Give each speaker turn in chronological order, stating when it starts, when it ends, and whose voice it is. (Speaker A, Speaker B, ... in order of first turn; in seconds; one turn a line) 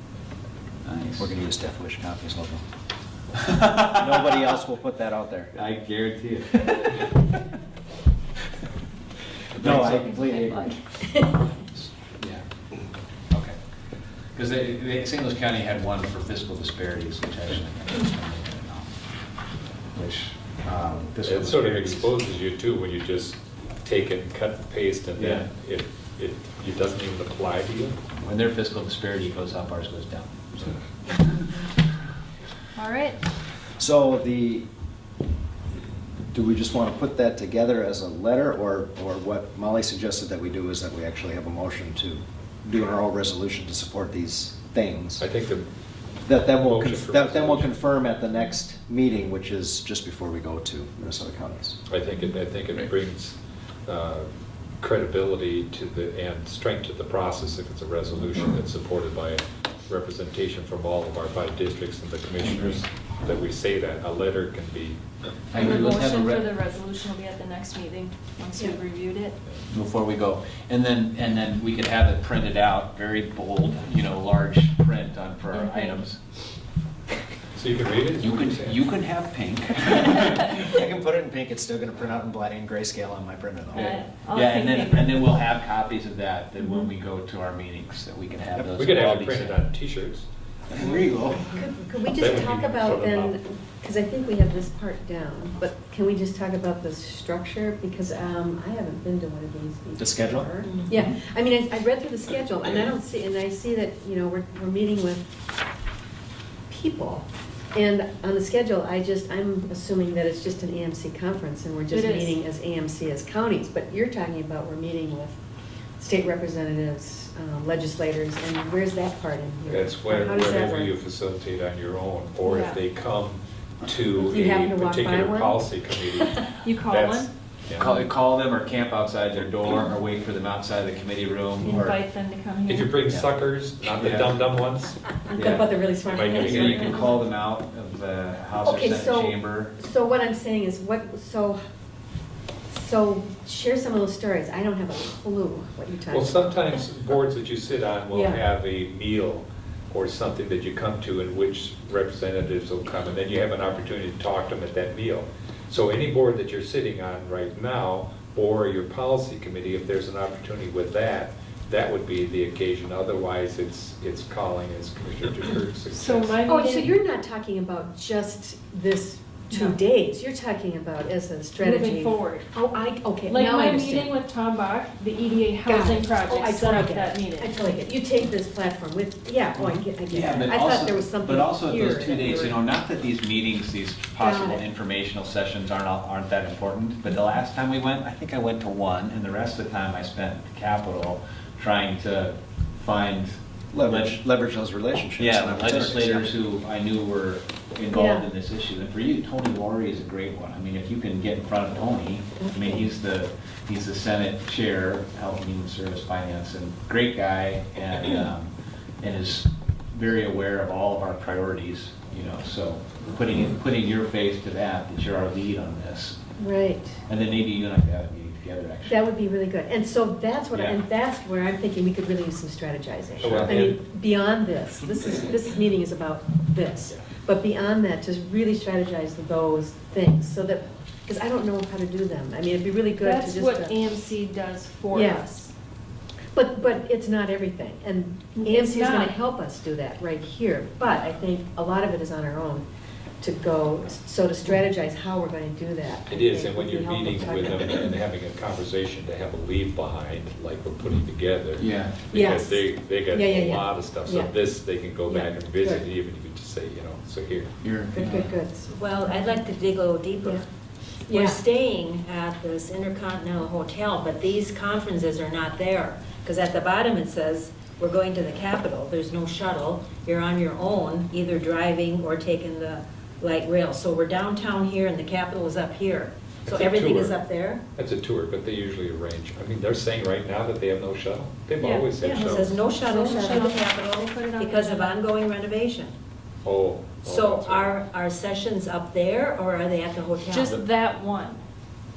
Speaker A: 0.8-1.3
Speaker B: 1.2-2.6
Speaker A: 3.4-4.4
Speaker B: 3.9-5.5
Speaker A: 5.5-7.0
Speaker A: 9.5-10.3
Speaker B: 9.5-10.8
Speaker C: 10.1-10.8
Speaker A: 12.1-12.4
Speaker A: 13.3-13.6
Speaker A: 14.3-18.9
Speaker A: 20.0-22.1
Speaker D: 21.2-28.0
Speaker A: 25.1-25.5
Speaker A: 28.2-31.5
Speaker C: 32.7-33.2
Speaker B: 33.8-34.7
Speaker B: 36.3-45.2
Speaker D: 45.2-45.7
Speaker B: 46.2-51.8
Speaker D: 46.5-47.7
Speaker D: 51.9-54.3
Speaker D: 54.8-65.0
Speaker A: 65.5-66.5
Speaker C: 65.5-69.3
Speaker A: 69.7-76.2
Speaker C: 75.5-76.0
Speaker D: 77.5-78.9
Speaker A: 78.2-80.6
Speaker B: 80.2-84.0
Speaker C: 83.7-85.4
Speaker A: 83.7-89.6
Speaker D: 88.6-90.3
Speaker A: 90.7-91.1
Speaker B: 90.8-91.5
Speaker E: 91.5-105.3
Speaker D: 92.1-93.3
Speaker B: 100.0-100.5
Speaker F: 100.6-100.9
Speaker E: 106.7-115.4
Speaker C: 111.9-112.4
Speaker E: 116.0-120.9
Speaker D: 119.7-127.9
Speaker C: 122.4-122.8
Speaker E: 124.3-126.3
Speaker C: 126.5-127.3
Speaker A: 127.8-132.0
Speaker C: 131.6-132.9
Speaker D: 132.7-135.0
Speaker A: 133.9-134.4
Speaker E: 135.3-137.3
Speaker A: 135.3-139.7
Speaker D: 136.1-137.1
Speaker E: 138.6-141.6
Speaker E: 142.7-146.8
Speaker D: 146.1-166.4
Speaker E: 148.1-148.4
Speaker C: 165.9-166.9
Speaker E: 166.4-174.1
Speaker C: 169.5-169.8
Speaker C: 171.6-172.5
Speaker C: 173.2-177.7
Speaker E: 175.6-182.6
Speaker A: 179.6-194.2
Speaker E: 184.2-184.6
Speaker B: 193.7-196.3
Speaker A: 195.2-208.5
Speaker E: 197.9-198.3
Speaker E: 202.4-202.8
Speaker A: 209.0-216.2
Speaker E: 216.4-217.0
Speaker A: 217.1-219.0
Speaker E: 218.9-233.8
Speaker A: 220.5-220.8
Speaker A: 223.2-223.7
Speaker D: 223.2-223.8
Speaker C: 233.0-235.5
Speaker E: 234.9-235.2
Speaker E: 236.3-242.7
Speaker C: 238.3-239.2
Speaker E: 243.2-247.9
Speaker D: 246.1-257.5
Speaker A: 251.6-252.1
Speaker E: 252.1-254.3
Speaker E: 255.1-255.8
Speaker A: 257.6-258.3
Speaker E: 257.9-259.3
Speaker F: 258.7-260.4
Speaker F: 261.1-277.6
Speaker E: 261.1-261.4
Speaker D: 276.4-277.1
Speaker D: 277.8-282.6
Speaker C: 281.6-281.9
Speaker F: 282.0-285.9
Speaker C: 282.7-284.9
Speaker E: 282.9-283.5
Speaker D: 286.4-287.8
Speaker F: 287.0-290.6
Speaker C: 290.3-291.4